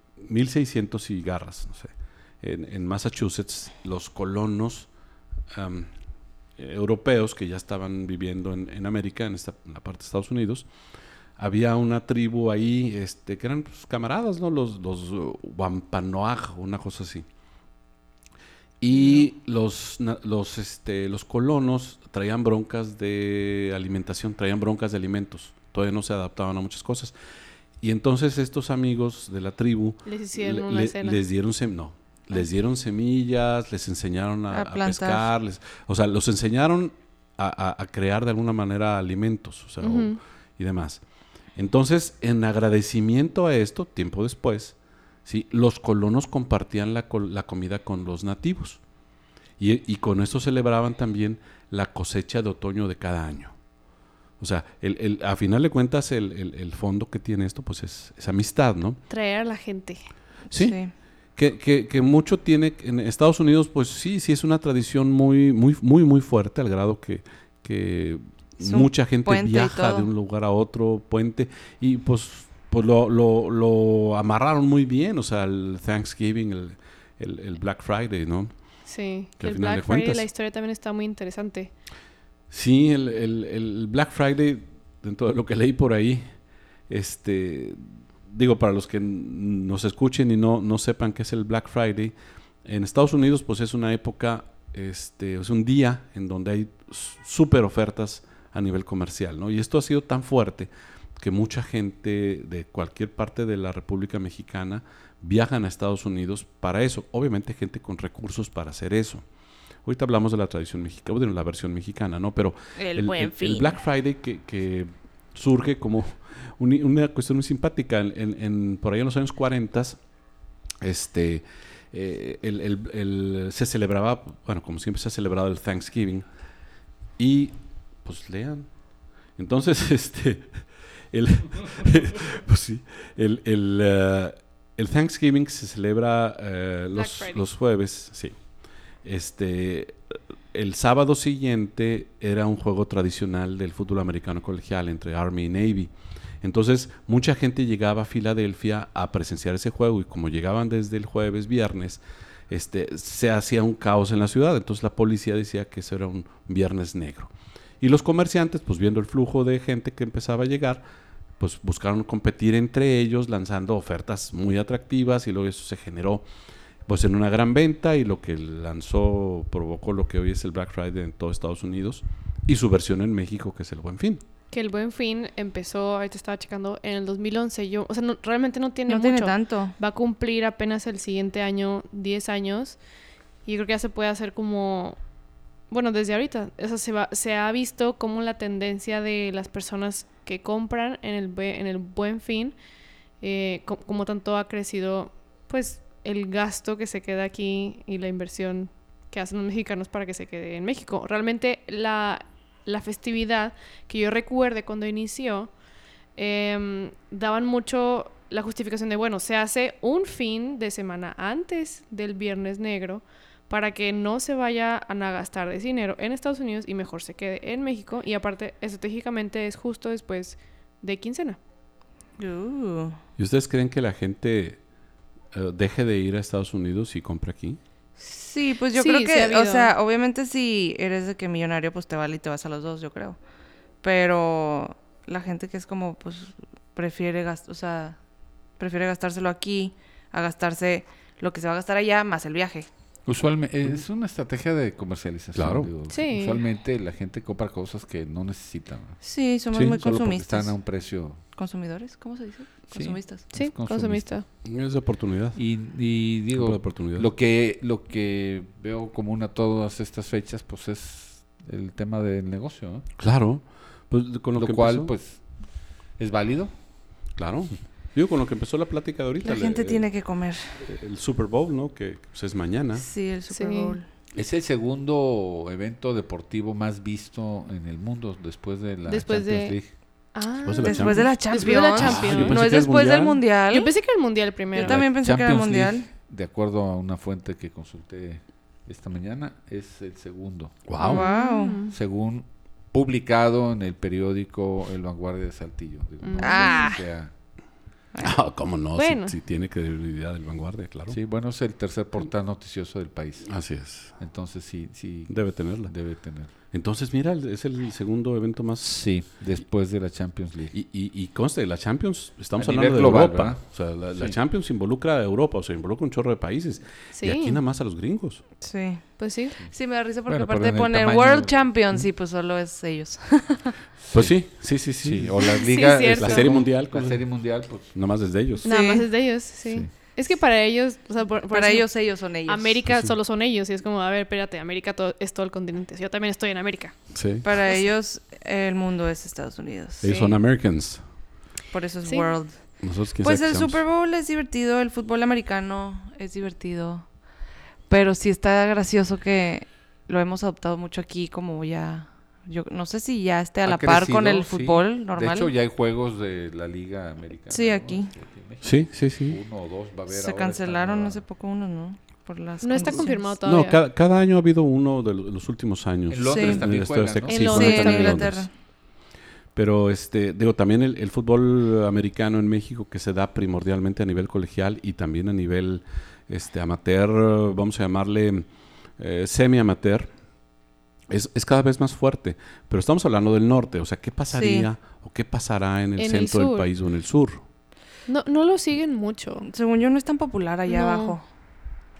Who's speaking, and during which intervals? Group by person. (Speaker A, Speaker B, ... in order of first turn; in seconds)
Speaker A: 0.2-4.9, 5.5-5.9, 6.6-10.7, 11.4-17.2, 18.8-27.1, 27.8-41.0, 41.5-48.8, 49.6-53.5, 54.4-59.0, 60.5-60.8, 61.4-78.5, 79.4-80.2, 82.5-86.2, 86.9-92.1, 92.6-109.2, 109.8-120.0, 120.8-126.2, 127.2-128.7, 129.3-138.4, 139.0-140.0, 140.5-145.9, 146.4-160.8, 161.4-166.2, 166.9-174.2, 223.2-224.6, 225.3-227.6, 245.3-245.7, 249.5-249.8, 254.4-255.4, 256.3-257.1, 263.0-264.9, 267.1-269.9, 270.6-272.9, 280.4-283.2, 290.7-291.0, 298.0-301.0, 303.2-304.0, 305.1-305.7, 306.5-308.8, 310.5-318.2, 323.9-327.1, 327.7-328.5, 332.7-332.9, 336.9-337.2, 339.8-340.8, 342.6-343.6, 358.4-359.2, 363.2-368.3, 369.3-379.9, 380.9-387.2
Speaker B: 30.0-31.2, 39.8-40.2, 59.1-60.0, 78.8-81.7, 136.9-137.4, 174.5-182.8, 183.4-185.0, 185.7-192.5, 193.2-205.5, 206.2-221.4, 228.7-229.7, 245.9-246.4, 253.3-254.2, 273.3-273.8, 278.9-279.5, 280.1-282.4, 283.5-284.8, 290.8-291.7, 296.0-296.7, 298.8-299.1, 316.9-317.4, 319.0-319.4, 325.2-326.4, 328.4-331.7, 332.2-336.8, 339.8-340.1, 341.8-342.1, 362.4-363.6, 367.1-368.1, 385.8-386.5, 387.9-389.3, 390.5-391.0
Speaker C: 34.5-35.3, 60.5-60.9, 68.6-70.1, 112.8-113.8, 178.9-179.7, 222.2-223.0, 228.0-233.2, 233.8-238.0, 238.6-242.7, 249.0-250.5, 251.3-253.2, 269.2-270.6, 272.8-273.9, 280.6-283.7, 284.5-285.9, 290.8-291.6, 296.2-296.8, 318.4-323.5, 328.4-328.9, 331.3-332.6, 337.2-340.0, 341.5-346.9, 347.7-355.3, 357.3-357.9, 359.9-363.1, 366.1-366.4, 367.3-368.3, 384.1-384.5, 389.2-391.0
Speaker D: 243.1-249.0, 249.7-251.2, 252.7-254.1, 255.3-262.9, 264.3-265.2, 266.0-266.5, 274.1-279.7, 284.6-290.6, 291.7-297.1, 300.9-303.3, 304.0-306.3, 308.6-310.5, 312.4-313.4, 320.1-321.8, 323.9-324.1, 324.8-327.7, 329.4-329.7, 353.4-361.0, 365.9-367.4